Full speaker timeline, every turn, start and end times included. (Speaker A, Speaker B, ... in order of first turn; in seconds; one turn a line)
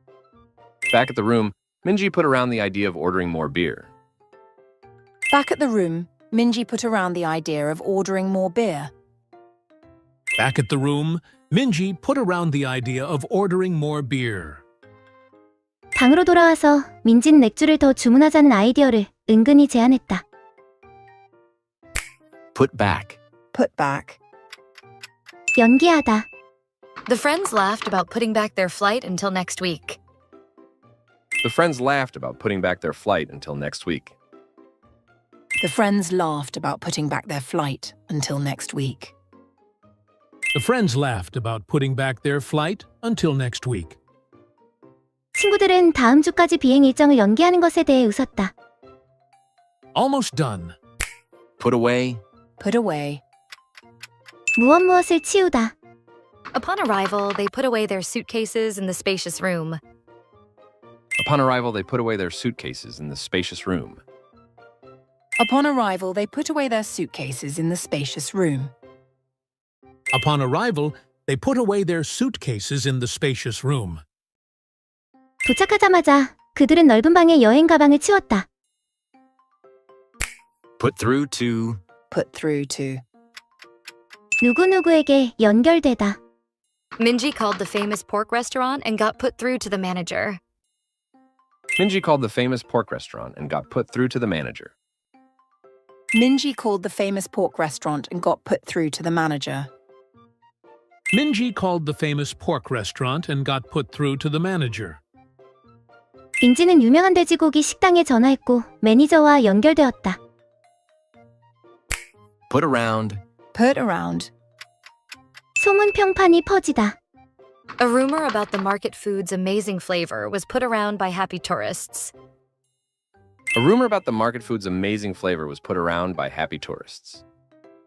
Speaker A: 0.9-3.9
Speaker B: 5.3-8.9
Speaker C: 10.4-14.6
Speaker D: 15.9-20.2
Speaker E: 22.5-23.2
Speaker B: 23.5-24.2
Speaker D: 25.6-26.3
Speaker F: 27.1-30.0
Speaker A: 31.4-34.1
Speaker B: 35.6-39.1
Speaker C: 40.5-44.0
Speaker D: 45.4-48.5
Speaker C: 49.9-50.8
Speaker E: 51.6-52.2
Speaker B: 52.6-53.2
Speaker D: 54.6-55.7
Speaker F: 56.5-59.8
Speaker A: 61.2-64.0
Speaker B: 65.4-68.7
Speaker C: 70.1-74.0
Speaker D: 75.4-78.5
Speaker E: 80.8-81.8
Speaker B: 82.1-83.0
Speaker D: 84.4-86.2
Speaker F: 87.0-90.4
Speaker A: 91.8-94.7
Speaker B: 96.1-99.7
Speaker C: 101.1-105.0
Speaker D: 106.4-110.2
Speaker E: 112.5-113.2
Speaker B: 113.5-114.3
Speaker D: 115.6-117.0
Speaker F: 117.8-122.1
Speaker A: 123.5-127.2